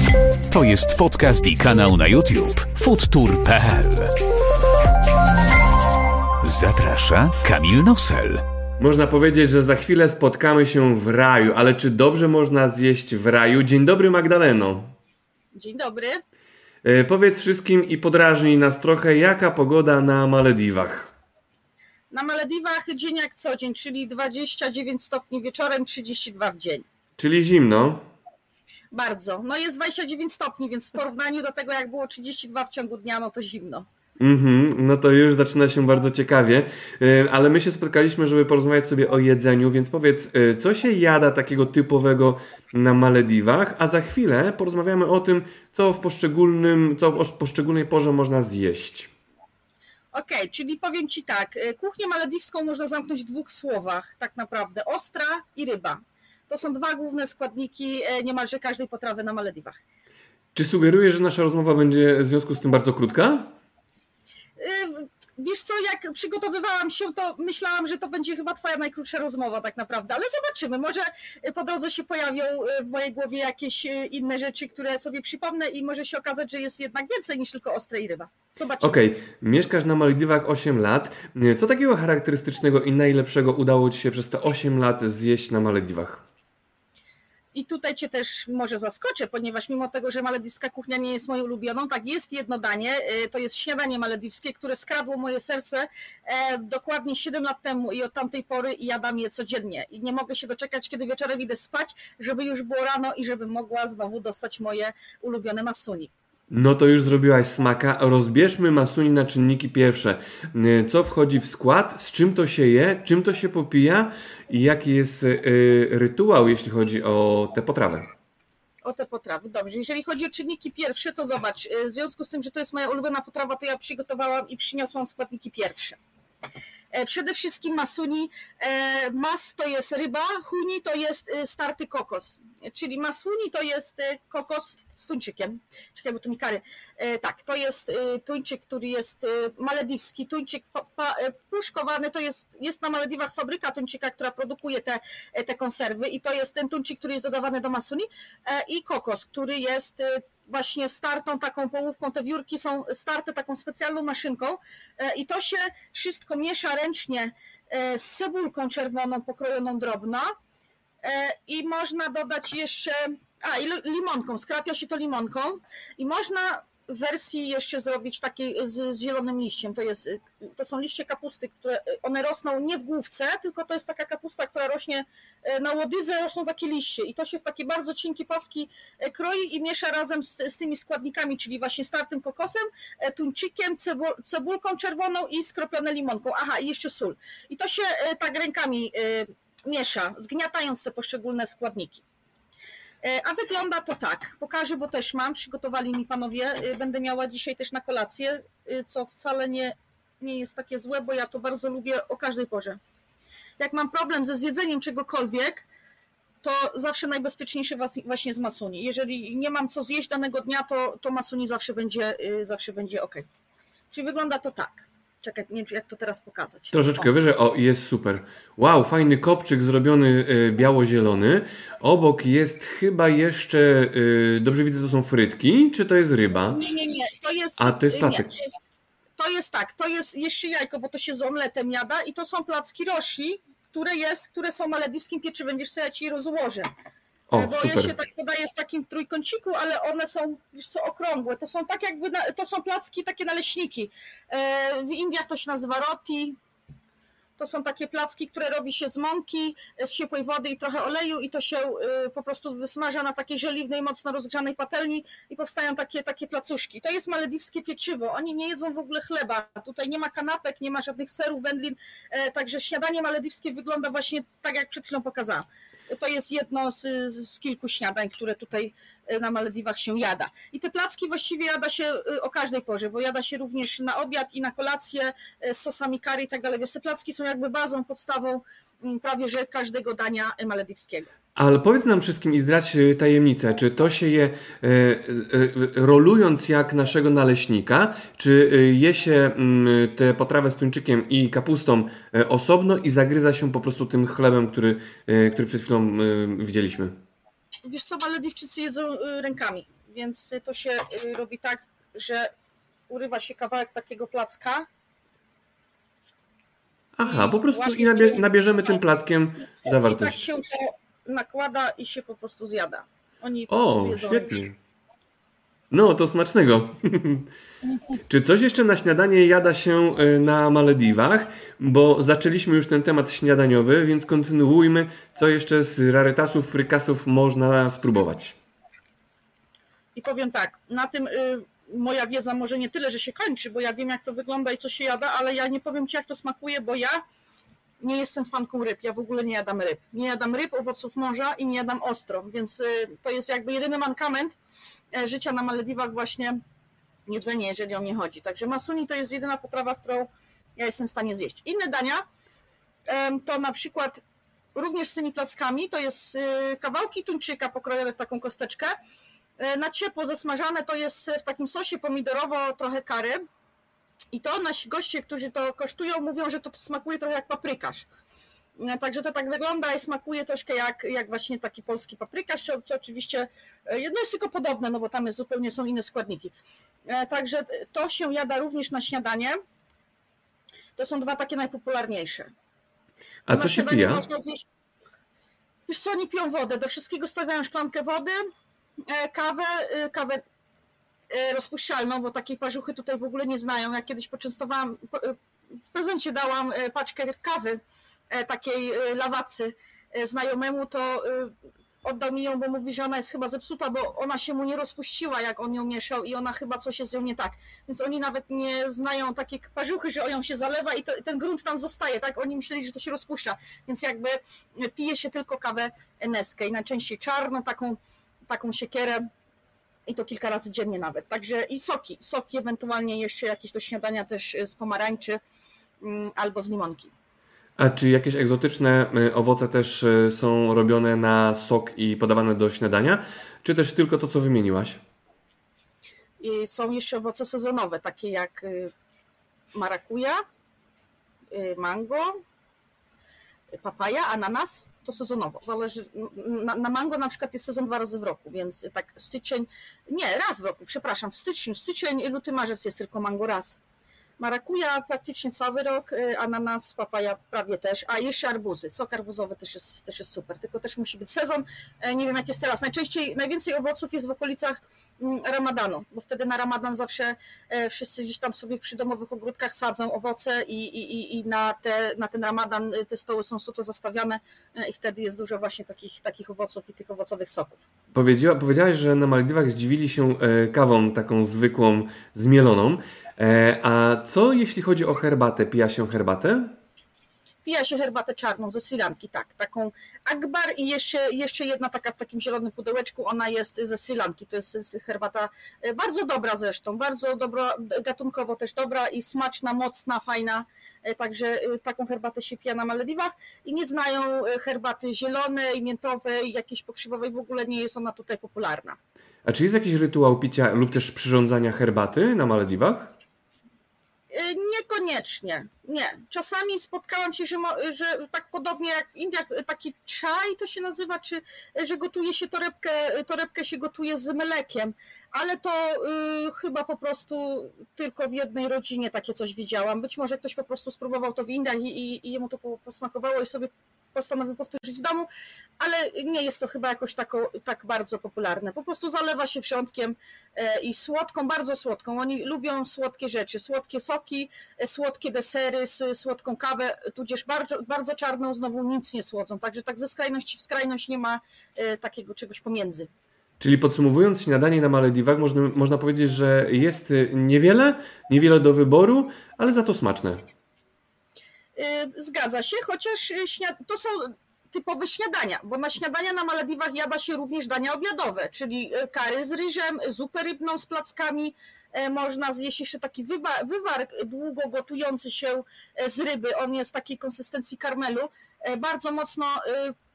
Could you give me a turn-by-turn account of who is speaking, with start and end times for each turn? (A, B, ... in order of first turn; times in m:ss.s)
0:00.5-0:04.2 A
0:06.4-0:08.4 A
0:08.8-0:14.9 B
0:15.5-0:16.2 C
0:16.8-0:21.1 B
0:22.1-0:26.8 C
0:27.2-0:28.0 B
0:28.9-0:33.9 C
0:34.2-0:49.1 B
0:50.1-0:59.8 C
1:00.5-1:03.5 B
1:04.6-1:19.0 C
1:18.8-1:26.2 B
1:27.5-1:46.1 C
1:46.5-1:58.1 B
1:58.8-2:06.0 C
2:06.9-2:40.3 C
2:41.0-3:12.0 C
3:13.0-3:22.8 C
3:23.6-3:25.7 C
3:26.4-3:33.2 C
3:33.9-3:37.1 C
3:36.7-3:46.6 B
3:46.5-3:48.5 C
3:47.6-3:48.3 B
3:49.2-3:56.7 C
3:57.3-3:57.9 B
3:57.3-4:06.4 C
4:07.4-4:41.1 C
4:41.4-4:57.0 B
4:57.6-5:02.3 C
5:02.9-5:04.7 C
5:07.0-5:10.2 B
5:07.0-5:08.8 C
5:09.6-5:14.4 C
5:13.5-5:14.6 B
5:15.7-5:17.3 B
5:18.1-5:28.4 B
5:29.9-5:37.0 C
5:37.8-5:44.4 C
5:44.9-5:46.4 C
5:47.1-5:52.0 C
5:52.9-5:54.0 C
5:54.5-5:58.7 C
5:59.4-6:03.2 C
6:04.1-6:07.9 C
6:08.6-6:16.3 C
6:16.9-6:19.4 C
6:20.8-6:22.3 C
6:23.3-6:24.0 B
6:23.3-6:24.4 C
6:25.7-6:28.2 C
6:28.8-6:30.2 C
6:31.1-6:59.1 C
6:59.9-7:05.2 C
7:05.8-7:06.9 C
7:07.6-7:14.8 B
7:16.2-7:18.7 C
7:19.5-7:20.2 C
7:21.3-7:22.2 C
7:23.5-7:33.6 C
7:34.2-7:57.6 C
7:57.9-8:06.6 B
8:07.4-8:28.8 C
8:29.2-8:32.9 B
8:34.1-8:55.1 C
8:55.6-9:12.9 C
9:13.4-9:20.2 B
9:21.5-9:39.7 C